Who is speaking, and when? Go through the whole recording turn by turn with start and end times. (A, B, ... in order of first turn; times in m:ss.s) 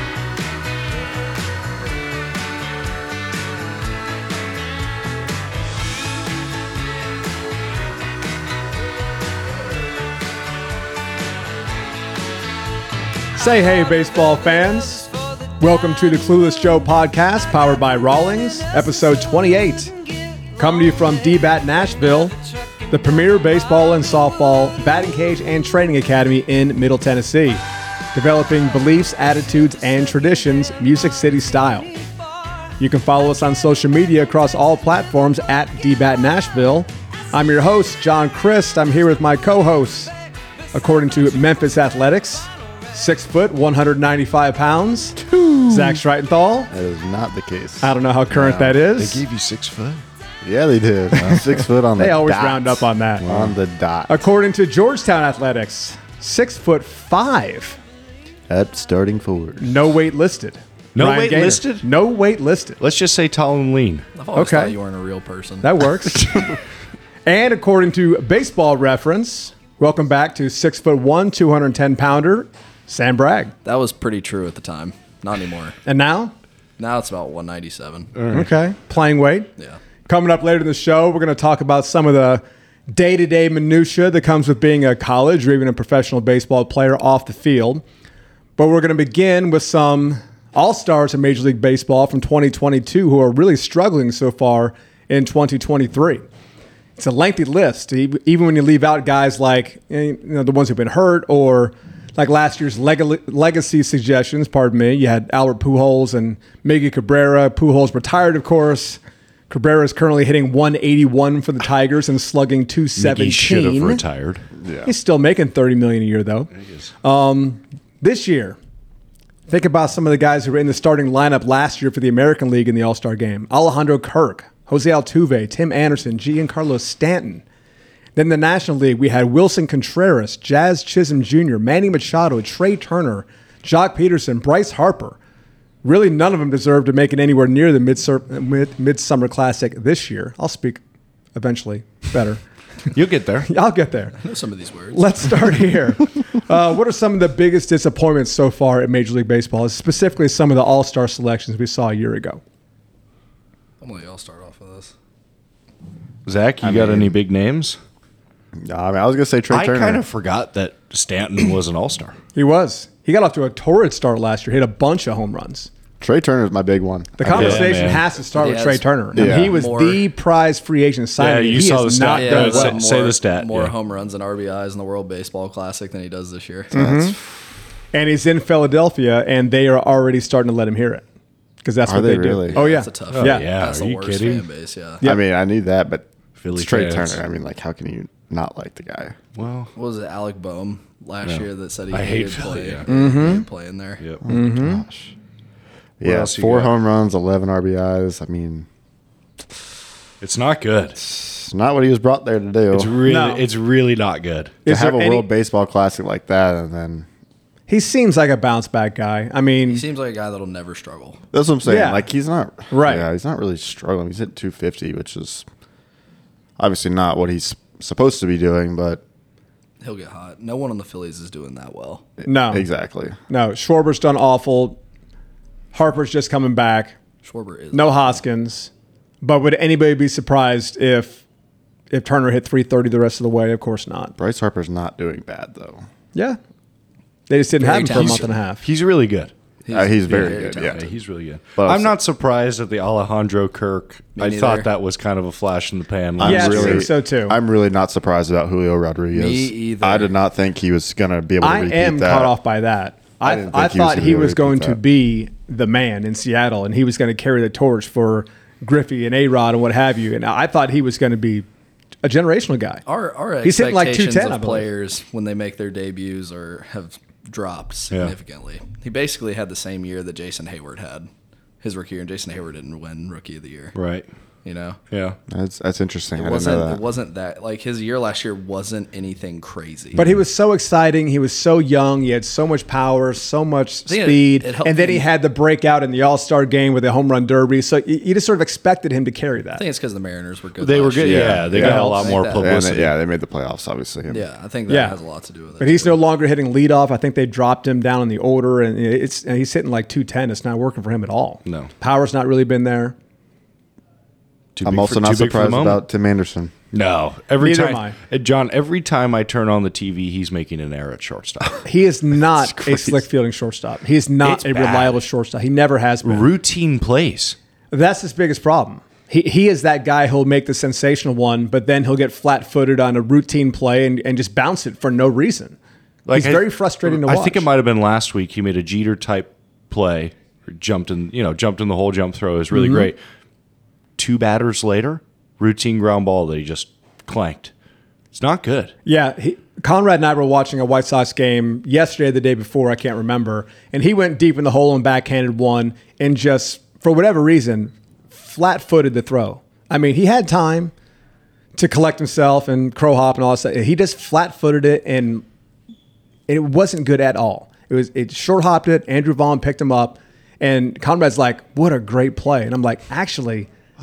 0:13.4-0:20.0 A
0:20.6-0:22.4 A
0:22.9-0:27.6 A
0:28.1-0:31.9 A
0:32.8-0:40.1 A
0:40.7-0:46.7 A
0:46.7-0:48.8 B
0:47.8-0:49.2 A
0:48.8-0:50.0 C
0:50.4-0:54.2 B
0:51.2-0:51.5 C
0:52.0-0:53.3 A
0:53.2-0:53.5 C
0:54.1-0:57.8 A
0:58.5-0:59.7 B
0:59.6-1:02.8 A
1:01.0-1:01.9 C
1:02.8-1:04.1 C
1:04.2-1:05.7 D
1:04.4-1:04.8 A
1:05.6-1:06.5 A
1:07.3-1:13.5 A
1:13.6-1:15.8 D
1:15.8-1:16.3 A
1:16.8-1:18.1 D
1:18.2-1:18.5 C
1:18.3-1:19.5 A
1:20.1-1:27.8 A
1:28.6-1:36.2 A
1:37.0-1:54.0 A
1:53.0-1:54.5 C
1:54.6-1:54.9 B
1:54.8-1:56.5 A
1:56.6-1:56.9 C
1:57.0-1:58.6 A
1:59.5-2:07.4 A
2:08.2-2:15.2 A
2:15.8-2:20.8 A
2:21.4-2:22.4 A
2:22.9-2:23.5 C
2:23.4-2:24.2 A
2:24.2-2:25.0 D
2:24.9-2:32.4 A
2:33.8-2:34.9 D
2:36.3-2:37.8 C
2:36.6-2:37.2 B
2:38.6-2:40.0 B
2:39.5-2:42.2 C
2:42.4-2:45.7 A
2:46.0-2:47.7 B
2:47.2-2:52.8 A
2:47.3-2:48.0 C
2:48.3-2:50.0 D
2:49.2-2:49.6 B
2:51.2-2:53.7 C
2:52.1-2:56.7 D
2:56.7-2:57.2 B
2:56.7-2:57.2 A
2:57.9-3:01.0 A
3:01.6-3:03.5 A
3:01.8-3:02.7 B
3:02.5-3:05.0 D
3:03.1-3:04.4 C
3:05.0-3:09.2 B
3:06.4-3:07.2 C
3:09.4-3:09.7 C
3:09.8-3:14.0 D
3:11.2-3:12.9 C
3:12.9-3:13.4 A
3:14.2-3:15.1 B
3:14.3-3:14.8 A
3:16.0-3:18.7 B
3:16.0-3:16.7 C
3:20.2-3:21.0 C
3:21.0-3:23.0 B
3:22.7-3:24.6 C
3:23.1-3:23.4 A
3:24.7-3:25.3 A
3:24.7-3:27.1 B
3:27.7-3:29.8 A
3:29.7-3:31.2 D
3:31.3-3:35.5 B
3:31.6-3:32.1 A
3:32.7-3:33.1 A
3:36.6-3:39.0 B
3:39.8-3:42.0 D
3:42.2-3:43.2 B
3:42.2-3:42.7 A
3:43.3-3:44.8 A
3:45.7-3:47.0 A
3:47.2-3:48.2 D
3:47.7-3:48.7 A
3:49.2-3:51.2 A
3:51.9-3:54.2 A
3:54.2-3:55.8 B
3:57.3-3:58.6 A
3:57.6-3:58.3 D
3:57.9-3:59.3 C
3:59.6-4:00.9 D
3:59.7-4:00.9 B
4:00.1-4:06.9 C
4:01.6-4:01.9 B
4:04.2-4:04.7 D
4:06.2-4:12.3 B
4:06.2-4:07.4 A
4:09.1-4:10.1 D
4:11.4-4:21.5 A
4:13.2-4:14.8 B
4:22.0-4:22.8 A
4:22.9-4:31.1 D
4:23.4-4:24.7 A
4:31.6-4:33.8 D
4:33.8-4:34.1 C
4:34.4-4:34.8 D
4:34.9-4:35.2 C
4:35.3-4:36.8 B
4:36.2-4:40.0 D
4:40.0-4:49.6 A
4:43.9-4:45.1 D
4:49.6-4:52.6 D
4:50.6-4:52.9 C
4:51.0-4:54.2 B
4:51.6-4:52.1 A
4:54.1-4:56.0 D
4:54.7-4:55.0 A
4:55.6-5:03.0 A
5:01.4-5:01.7 C
5:04.6-5:05.8 C
5:04.6-5:06.5 B
5:06.7-5:11.7 C
5:07.4-5:08.0 A
5:11.6-5:16.3 A
5:12.4-5:13.0 C
5:14.2-5:15.0 C
5:16.0-5:17.4 C
5:17.7-5:25.6 A
5:26.1-5:33.0 C
5:26.1-5:27.5 A
5:32.5-5:32.9 A
5:34.0-5:37.5 C
5:38.1-5:38.7 C
5:38.9-5:50.7 A
5:51.6-5:55.2 A
5:56.3-6:03.5 A